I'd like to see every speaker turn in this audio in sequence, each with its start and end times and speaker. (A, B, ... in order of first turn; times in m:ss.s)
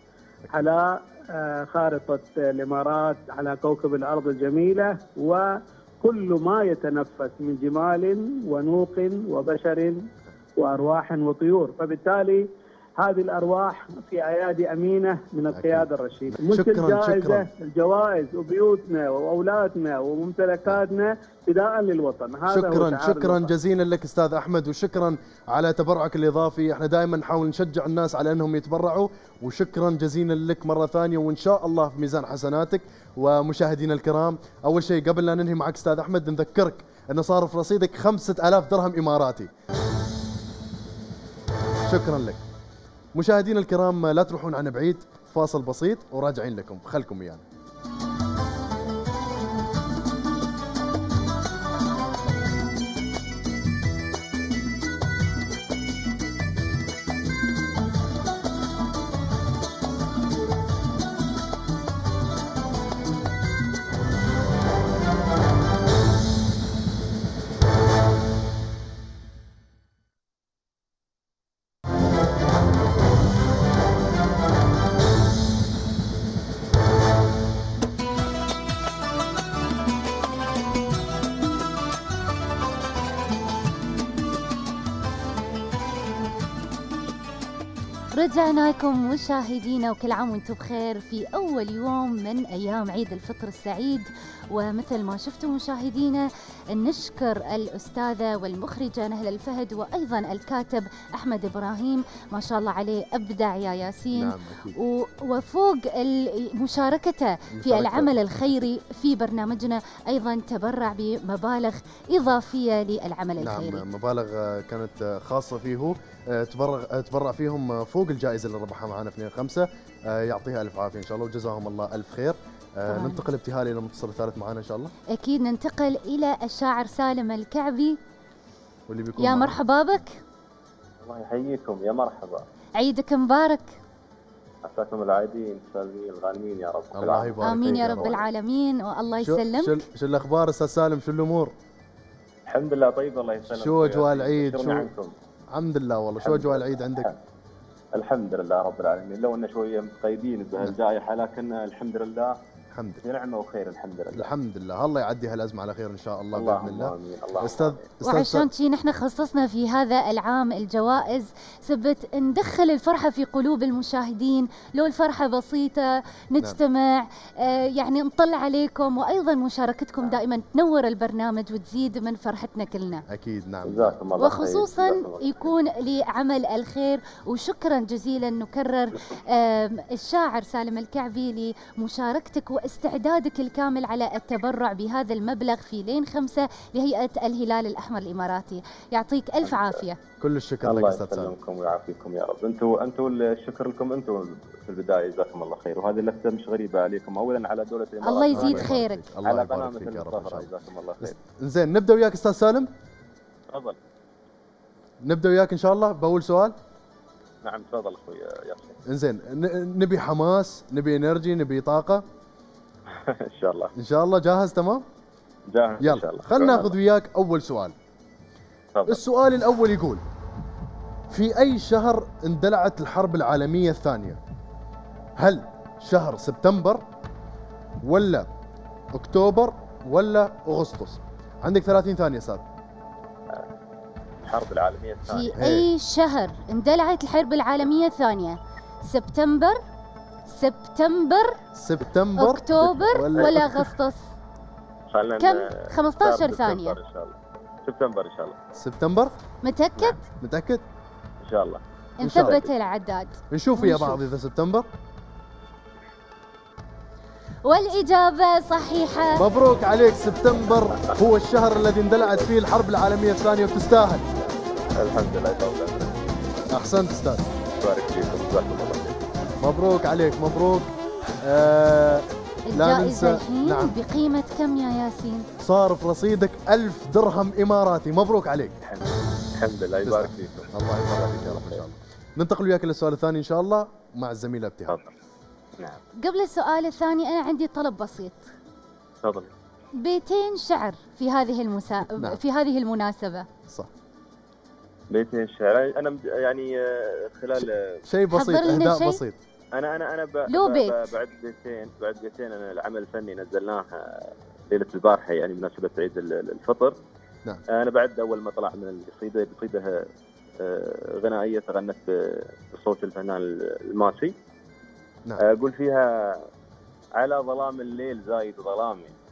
0:00.5-0:05.5 A
0:06.0-0:10.0 A
0:10.6-0:12.4 A
0:13.0-0:23.5 A
0:15.5-0:17.5 B
0:22.5-0:39.5 B
0:41.9-0:42.4 B
0:43.1-0:47.4 B
1:28.1-1:53.8 C
1:44.1-1:44.8 B
1:47.5-1:48.2 B
1:53.4-2:04.9 B
2:02.9-2:03.2 C
2:05.1-2:08.0 C
2:08.9-2:09.6 B
2:09.2-2:10.2 C
2:11.0-2:12.5 D
2:12.8-2:13.8 C
2:14.6-2:18.2 D
2:16.9-2:18.2 B
2:17.4-2:19.8 C
2:19.2-2:21.5 B
2:22.5-2:25.1 D
2:23.5-2:24.9 B
2:25.5-2:27.1 B
2:26.2-2:27.2 D
2:27.9-2:32.4 D
2:32.7-2:33.0 B
2:33.0-2:34.3 D
2:34.1-2:38.5 B
2:36.3-2:37.8 D
2:38.0-2:53.0 C
2:53.1-2:54.0 B
2:53.6-2:55.5 D
2:54.2-3:10.0 C
3:09.4-3:09.7 D
3:10.2-3:11.3 B
3:10.6-3:21.1 D
3:18.0-3:19.0 C
3:18.3-3:20.5 B
3:21.0-3:22.7 B
3:23.5-3:23.8 D
3:25.0-3:26.6 B
3:27.4-3:28.8 D
3:28.9-3:32.0 B
3:32.9-3:33.7 D
3:33.8-3:34.8 B
3:35.5-3:36.7 D
3:35.8-3:37.7 B
3:38.7-3:39.0 D
3:38.9-3:40.0 B
3:41.1-3:44.2 B
3:45.2-3:46.8 B
3:47.8-3:48.3 B
3:48.9-3:52.4 B
3:54.2-3:55.4 D
3:55.1-3:59.6 C
3:55.4-3:55.7 B
4:00.3-4:01.4 C
4:01.5-4:03.6 B
4:02.2-4:04.1 C
4:03.1-4:03.4 D
4:04.9-4:08.4 D
4:05.2-4:06.8 C
4:08.5-4:09.2 B
4:09.4-4:10.0 C
4:10.2-4:10.6 B
4:11.2-4:11.6 D
4:12.0-4:14.0 C
4:12.0-4:12.4 B
4:13.3-4:14.7 B
4:17.4-4:19.2 C
4:19.2-4:24.0 B
4:24.7-4:26.1 D
4:26.5-4:27.2 B
4:27.6-4:29.0 D
4:29.4-4:30.7 B
4:31.2-4:33.8 B
4:32.5-4:35.3 C
4:35.4-4:38.5 B
4:38.6-4:41.6 D
4:39.8-4:44.8 B
4:44.7-4:44.9 D
4:46.0-4:48.3 C
4:49.0-4:49.3 D
4:49.8-4:53.3 C
4:54.9-4:57.8 D
4:57.9-4:59.2 B
4:58.1-4:59.0 C
4:59.5-5:06.8 D
5:00.3-5:00.8 C
5:07.5-5:09.9 D
5:10.4-5:14.2 D
5:15.2-5:16.2 D
5:17.0-5:18.9 D